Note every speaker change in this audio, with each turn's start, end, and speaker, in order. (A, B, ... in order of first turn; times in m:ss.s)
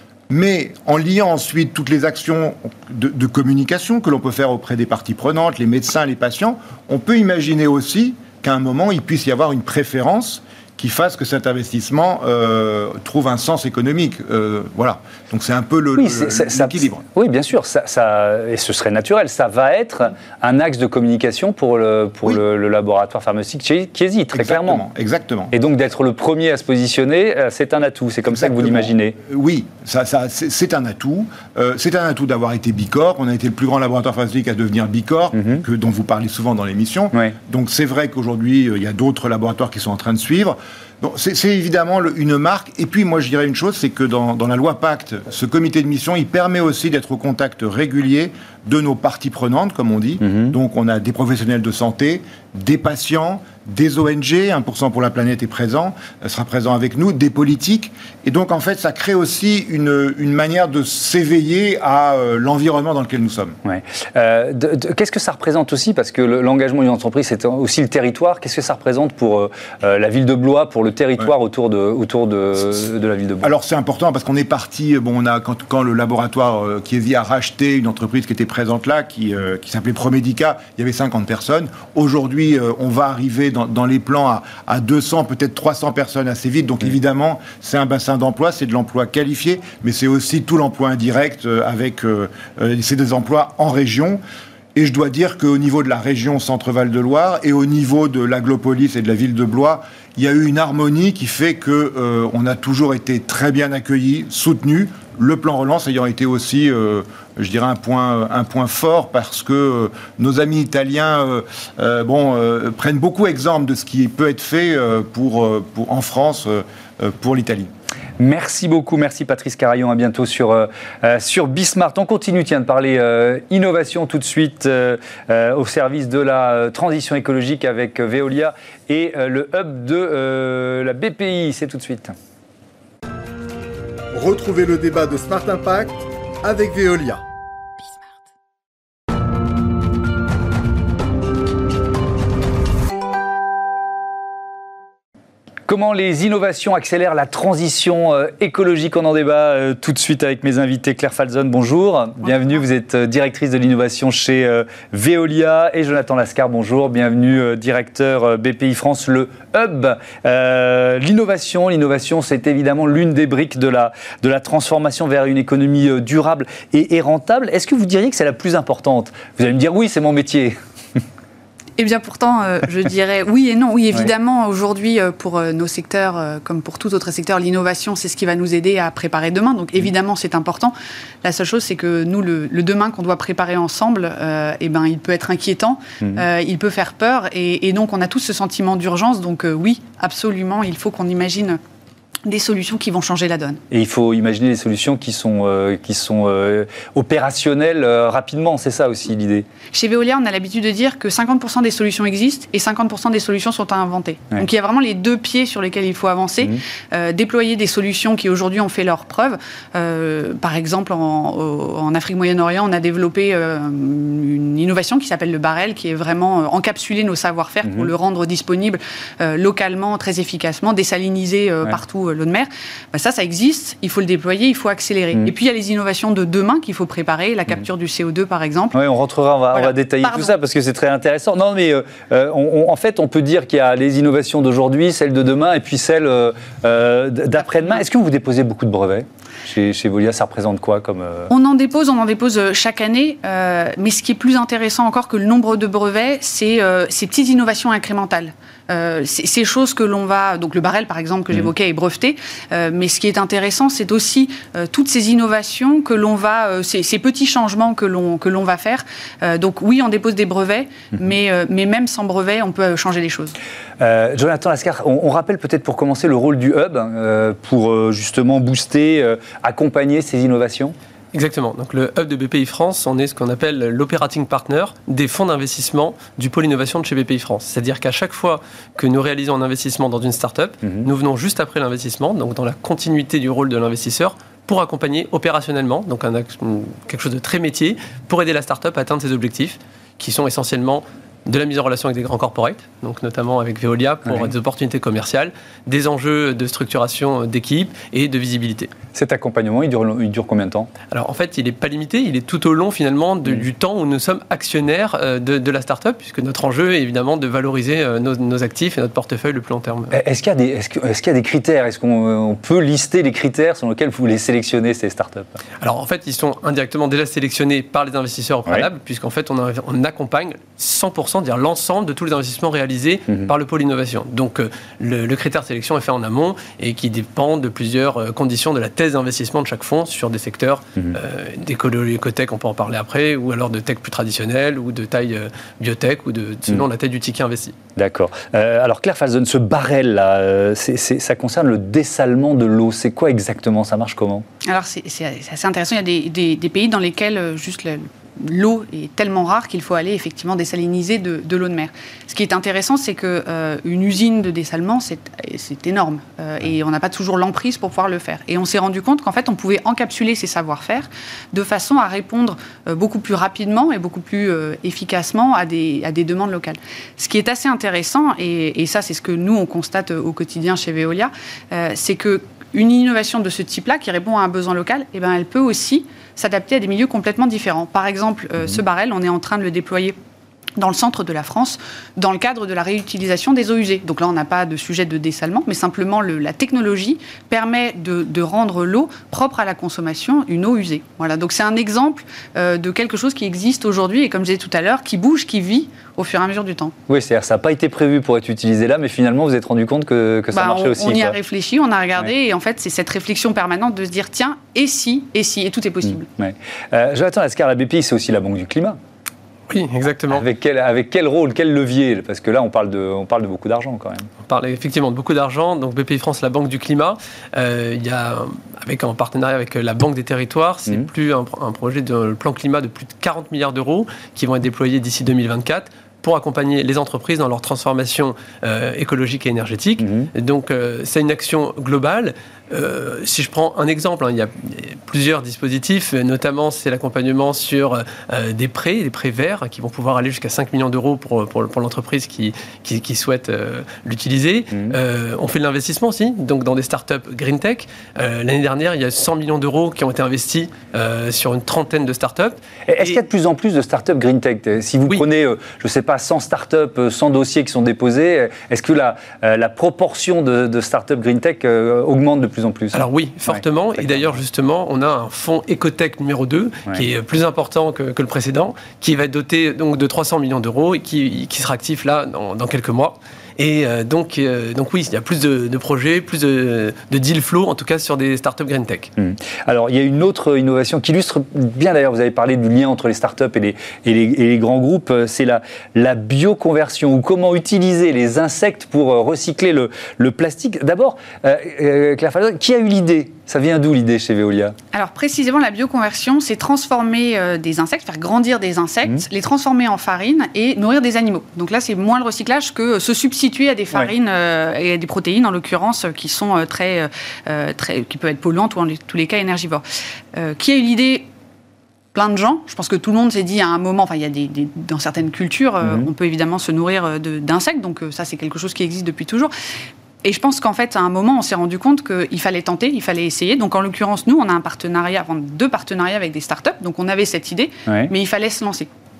0:00.3-0:17.0 A
0:16.0-0:24.8 B
0:24.3-0:25.5 A
0:25.5-0:29.2 B
0:28.3-1:03.6 A
0:35.4-0:35.6 B
0:50.2-0:50.5 B
1:03.6-1:13.5 B
1:13.4-1:34.2 A
1:34.7-1:57.7 A
1:58.2-2:12.1 B
2:14.1-2:17.2 C
2:25.7-2:50.6 B
2:51.8-3:11.6 D
3:12.2-3:13.6 D
3:13.7-3:19.5 B
3:19.7-3:48.8 D
3:48.7-4:01.3 B
3:49.5-3:50.3 D
3:57.4-3:57.8 D
4:01.3-4:23.4 D
4:23.8-4:30.8 B
4:31.1-4:58.7 E
4:40.6-4:40.9 B
4:58.9-5:00.7 B
5:00.9-5:10.0 E
5:09.9-5:15.4 B
5:15.6-5:37.6 E
5:37.8-5:44.2 B
5:44.4-6:20.0 D
6:20.6-6:36.7 D
6:36.9-6:41.2 B
6:40.3-6:46.1 D
6:46.2-6:48.8 B
6:49.5-6:50.2 E
6:50.1-6:54.1 B
6:54.2-7:33.0 E
7:09.8-7:10.1 B
7:32.7-7:44.2 B
7:42.7-7:58.9 E
7:59.0-8:14.6 B
8:14.7-8:29.6 D
8:30.1-8:31.1 D
8:31.9-8:39.3 D
8:35.6-8:35.9 B
8:40.0-8:48.7 D